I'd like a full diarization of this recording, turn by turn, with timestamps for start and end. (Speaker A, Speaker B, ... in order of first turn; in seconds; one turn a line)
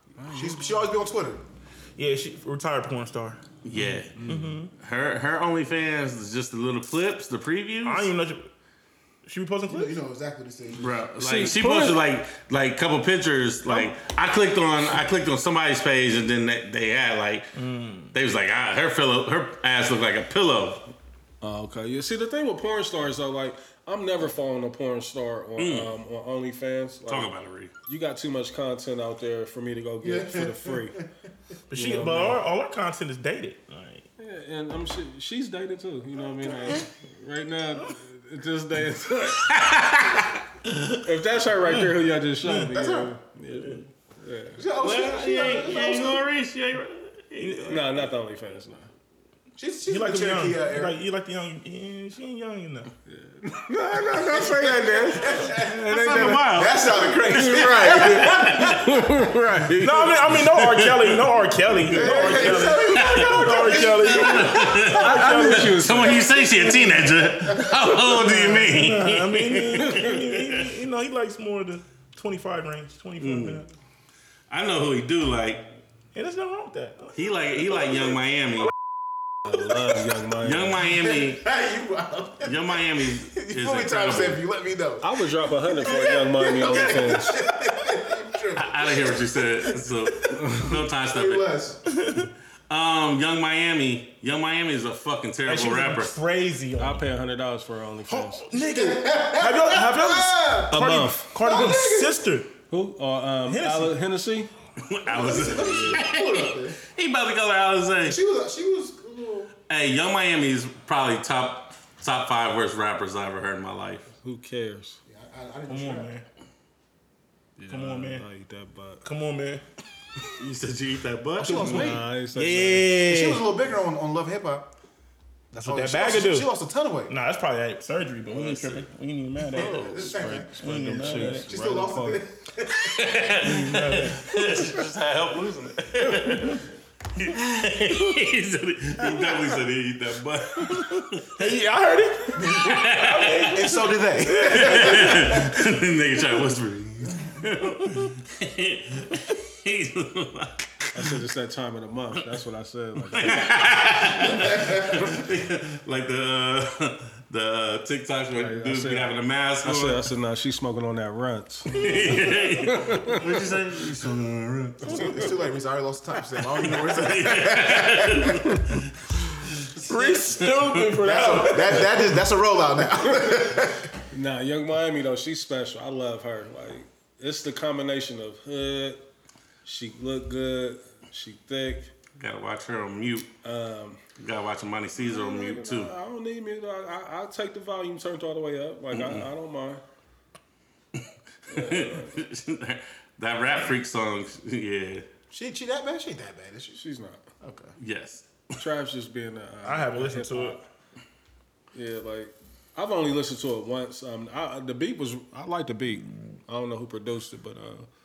Speaker A: 0.2-0.8
Speaker B: 0.3-1.4
Speaker C: 2.0-3.4
Speaker D: 3.6-4.2
Speaker A: 3.8-4.6
Speaker C: 4.3-4.7
Speaker D: 4.7-8.1
Speaker C: 7.8-8.5
Speaker C: 9.2-9.9
Speaker B: 9.7-10.9
Speaker D: 10.8-17.5
Speaker A: 11.2-12.0
Speaker C: 17.6-18.1
Speaker D: 18.1-20.9
Speaker A: 21.4-27.3
Speaker D: 25.6-25.9
Speaker D: 27.1-27.7
Speaker A: 27.9-31.0
Speaker B: 30.0-31.1
Speaker C: 31.7-34.0
Speaker A: 31.7-32.4
Speaker A: 34.2-39.6
Speaker B: 36.4-36.8
Speaker D: 39.5-41.0
Speaker A: 41.0-44.6
Speaker C: 41.7-42.8
Speaker B: 42.6-43.1
Speaker B: 44.5-46.3
Speaker D: 44.8-47.8
Speaker C: 47.4-47.8
Speaker A: 47.7-48.9
Speaker B: 49.6-51.0
Speaker C: 49.9-52.9
Speaker A: 53.1-60.1
Speaker B: 54.1-58.9
Speaker D: 55.4-56.9
Speaker D: 57.5-58.9
Speaker D: 59.6-62.0
Speaker C: 59.8-66.5
Speaker B: 61.8-64.8
Speaker A: 62.1-62.7
Speaker D: 62.6-70.7
Speaker A: 64.9-66.9
Speaker C: 67.9-73.7
Speaker D: 73.2-73.6
Speaker D: 74.5-75.7
Speaker C: 76.1-77.2
Speaker D: 77.2-78.7
Speaker C: 77.7-78.0
Speaker A: 79.4-80.8
Speaker D: 80.4-81.4
Speaker B: 80.9-85.1
Speaker D: 82.4-84.4
Speaker A: 85.0-87.3
Speaker B: 85.6-91.8
Speaker D: 86.6-86.9
Speaker D: 88.5-91.5
Speaker C: 91.9-92.3
Speaker D: 92.7-96.1
Speaker C: 95.5-97.0
Speaker A: 96.8-98.5
Speaker C: 98.1-102.5
Speaker B: 98.5-102.2
Speaker A: 100.7-101.3
Speaker A: 102.7-104.5
Speaker C: 103.5-104.0
Speaker D: 104.8-108.2
Speaker B: 105.1-106.8
Speaker A: 105.6-106.0
Speaker B: 108.0-109.5
Speaker D: 109.7-114.1
Speaker A: 114.2-115.0
Speaker B: 115.1-116.1
Speaker C: 115.7-116.3
Speaker A: 117.6-119.0
Speaker C: 117.7-118.2
Speaker C: 119.0-119.6
Speaker D: 120.4-122.0
Speaker B: 121.4-122.1
Speaker A: 121.4-123.0
Speaker C: 121.8-123.4
Speaker B: 123.0-124.7
Speaker B: 125.5-127.1
Speaker C: 125.6-126.5
Speaker C: 127.1-129.8
Speaker D: 128.3-128.9
Speaker D: 129.5-130.2
Speaker B: 129.5-133.4
Speaker A: 129.9-132.2
Speaker C: 130.6-131.5
Speaker D: 132.8-136.6
Speaker C: 133.4-134.4
Speaker C: 136.2-136.6
Speaker D: 137.2-141.3
Speaker C: 140.7-145.4
Speaker D: 142.5-143.5
Speaker B: 143.5-145.7
Speaker D: 144.5-151.1
Speaker A: 150.9-153.5
Speaker D: 153.0-160.1
Speaker B: 154.6-154.8
Speaker A: 158.4-159.1
Speaker A: 159.6-163.2
Speaker D: 161.7-165.3
Speaker B: 164.8-168.8
Speaker D: 166.5-170.9
Speaker C: 169.9-172.1
Speaker B: 171.0-173.9
Speaker A: 174.1-179.0
Speaker A: 179.6-181.9
Speaker D: 182.2-183.3
Speaker A: 183.4-184.0
Speaker D: 184.2-185.9
Speaker A: 185.0-189.8
Speaker D: 188.9-189.3
Speaker D: 190.9-195.1
Speaker A: 191.5-192.2
Speaker B: 195.3-196.8
Speaker A: 196.8-197.2
Speaker B: 197.4-197.7
Speaker D: 197.8-198.6
Speaker A: 198.6-200.6
Speaker C: 199.6-200.6
Speaker A: 201.7-207.9